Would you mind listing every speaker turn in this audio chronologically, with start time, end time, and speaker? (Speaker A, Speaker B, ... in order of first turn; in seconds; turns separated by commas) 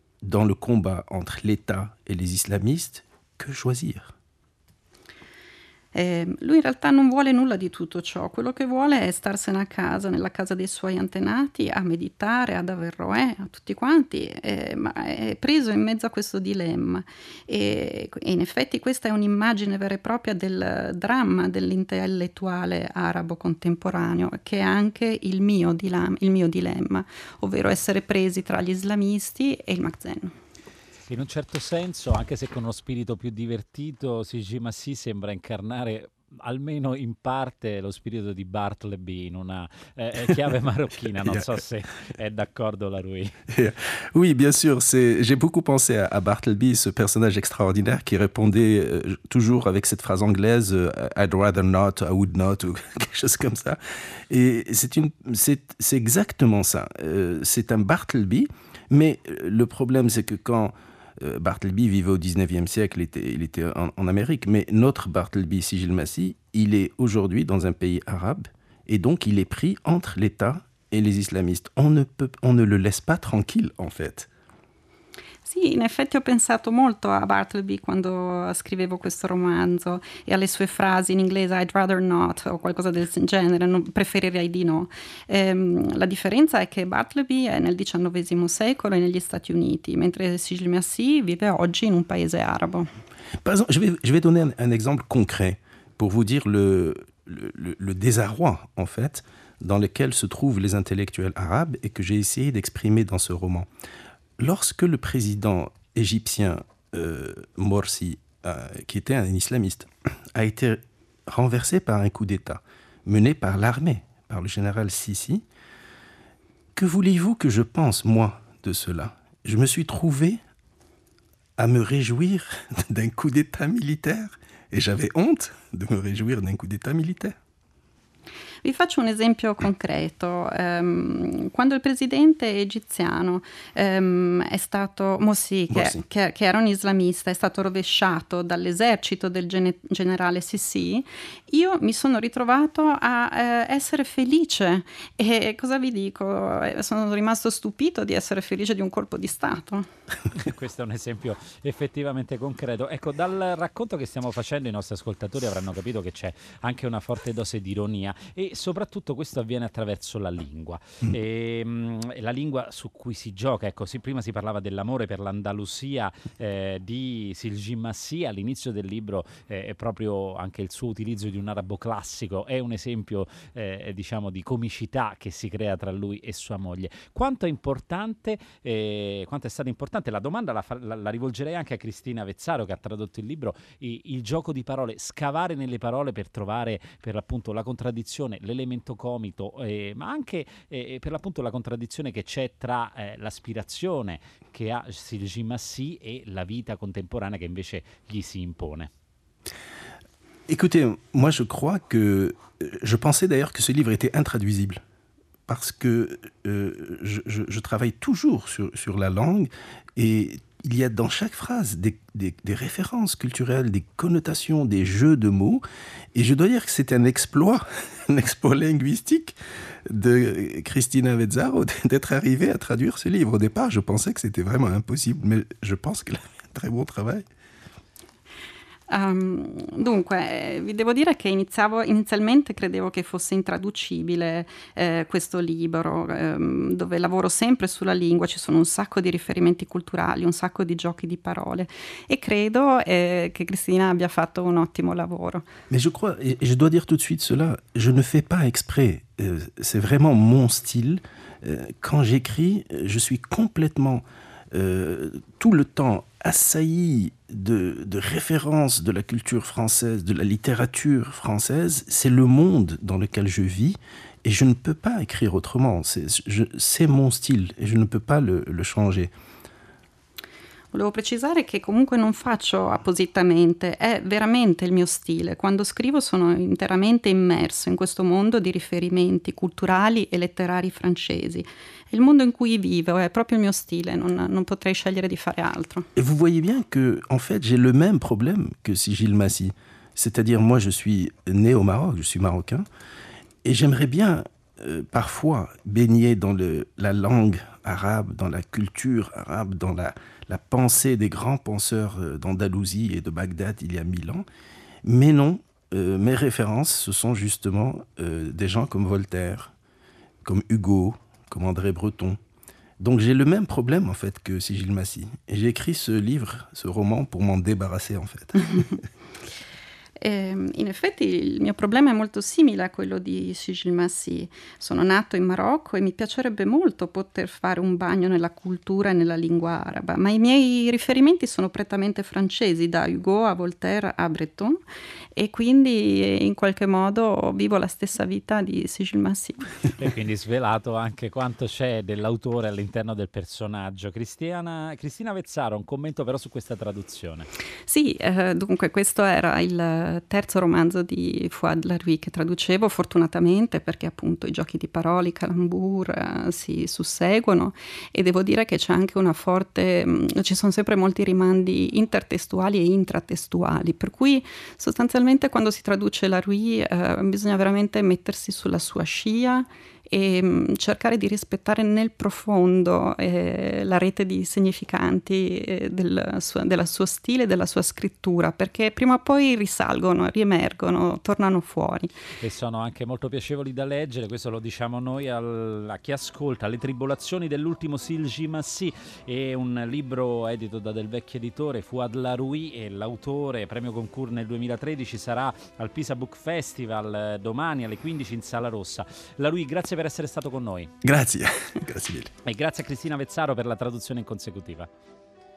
Speaker A: 0.2-4.1, Speaker B: 5.9-30.3, Speaker C: 31.1-43.3, Speaker A: 43.5-53.8, Speaker A: 54.3-74.3, Speaker B: 75.5-92.9, Speaker A: 93.4-103.7, Speaker A: 104.4-115.4, Speaker A: 116.8-120.4, Speaker A: 121.6-127.3, Speaker B: 128.6-149.8, Speaker A: 135.7-136.0, Speaker C: 150.3-198.9, Speaker A: 200.5-204.8, Speaker A: 205.5-215.6, Speaker A: 216.1-227.2, Speaker B: 228.9-245.5, Speaker A: 245.7-269.1, Speaker B: 270.7-285.9, Speaker A: 285.9-292.6, Speaker A: 293.4-304.2, Speaker A: 304.8-309.5, Speaker A: 310.2-312.2, Speaker A: 312.8-318.8, Speaker B: 320.0-334.6, Speaker B: 335.1-339.5, Speaker C: 339.8-347.3, Speaker B: 347.7-381.9, Speaker C: 382.2-400.7, Speaker A: 400.8-402.1, Speaker C: 402.2-404.7